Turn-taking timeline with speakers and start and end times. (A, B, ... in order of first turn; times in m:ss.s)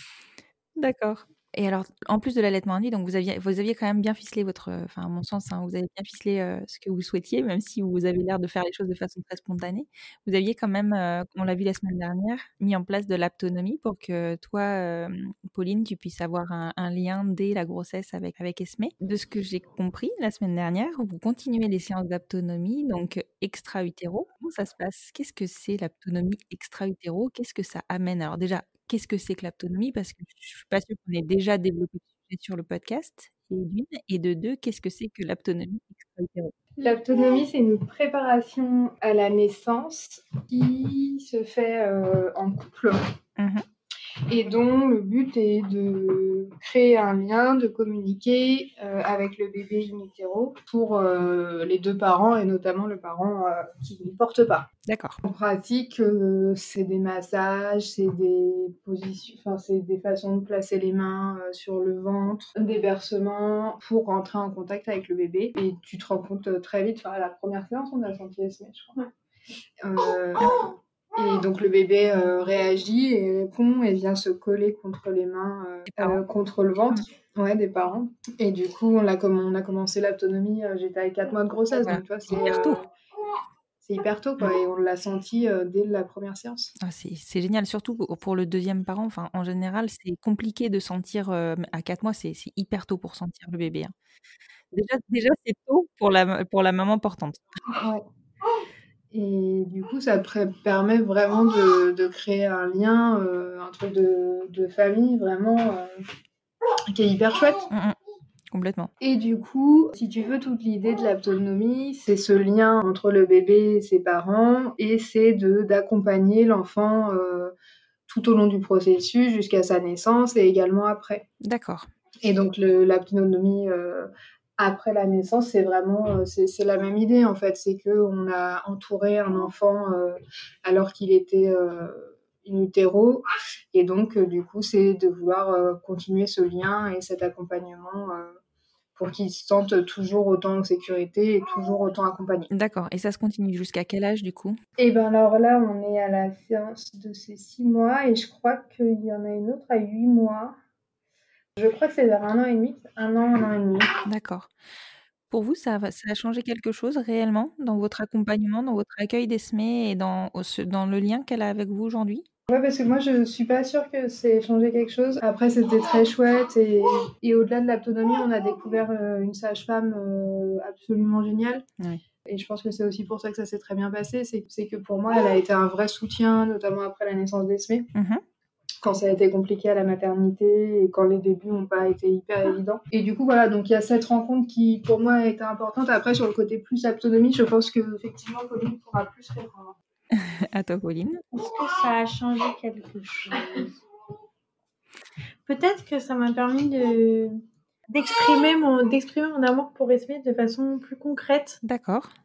0:00.8-0:36.5 A
0:36.8-0:43.0 B
0:43.4-0:43.6 A
0:44.3-0:54.7 B
0:54.9-0:55.2 A
0:55.2-1:09.1 B
1:09.8-1:22.9 B
1:15.9-1:16.2 A
1:21.7-1:22.8 A
1:23.8-1:26.7 B
1:26.8-1:33.9 A
1:34.7-1:37.4 A
1:37.7-1:38.0 B
1:39.1-1:46.0 B
1:46.9-1:47.7 B
1:47.7-1:48.0 A
1:48.5-1:48.9 A
1:49.0-1:57.5 B
1:58.1-2:01.3 B
2:01.4-2:01.9 A
2:02.2-2:18.4 B
2:19.0-2:22.5 B
2:22.5-2:24.6 A
2:24.8-2:30.6 B
2:31.6-2:33.9 B
2:34.1-2:34.5 A
2:35.3-2:42.2 A
2:42.5-2:51.6 B
2:52.3-2:57.9 B
2:58.0-2:58.2 A
2:58.8-3:09.8 B
3:10.1-3:11.2 A
3:11.3-3:13.7 C
3:15.5-3:17.4 C
3:17.9-3:21.6 C
3:21.6-3:22.1 A